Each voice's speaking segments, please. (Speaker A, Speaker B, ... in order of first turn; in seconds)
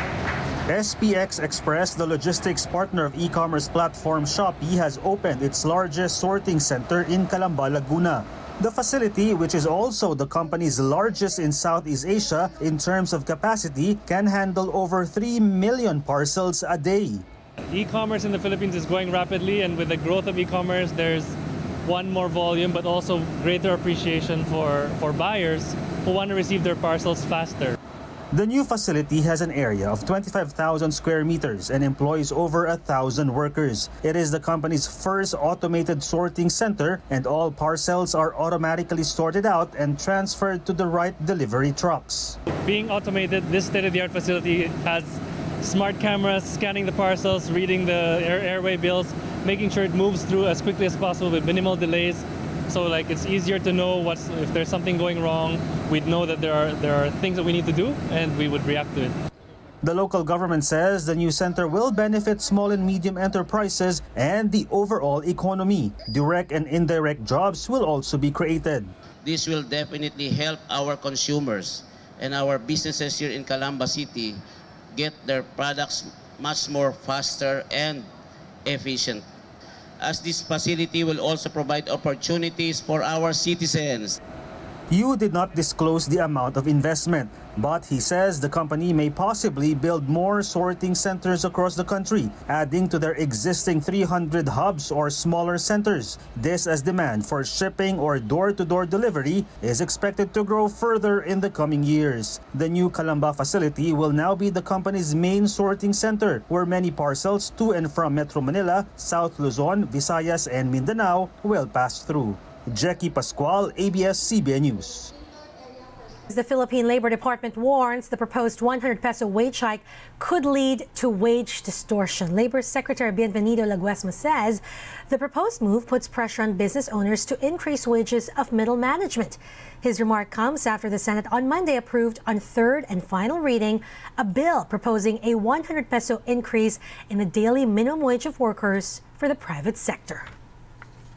Speaker A: 0.7-17.3, 28.3-42.4, 59.8-68.9, 84.9-115.1
Speaker B: 17.7-27.8, 42.6-59.1
Speaker C: 69.2-74.4, 74.9-78.1, 78.7-79.2, 80.0-84.2
Speaker D: 116.3-140.3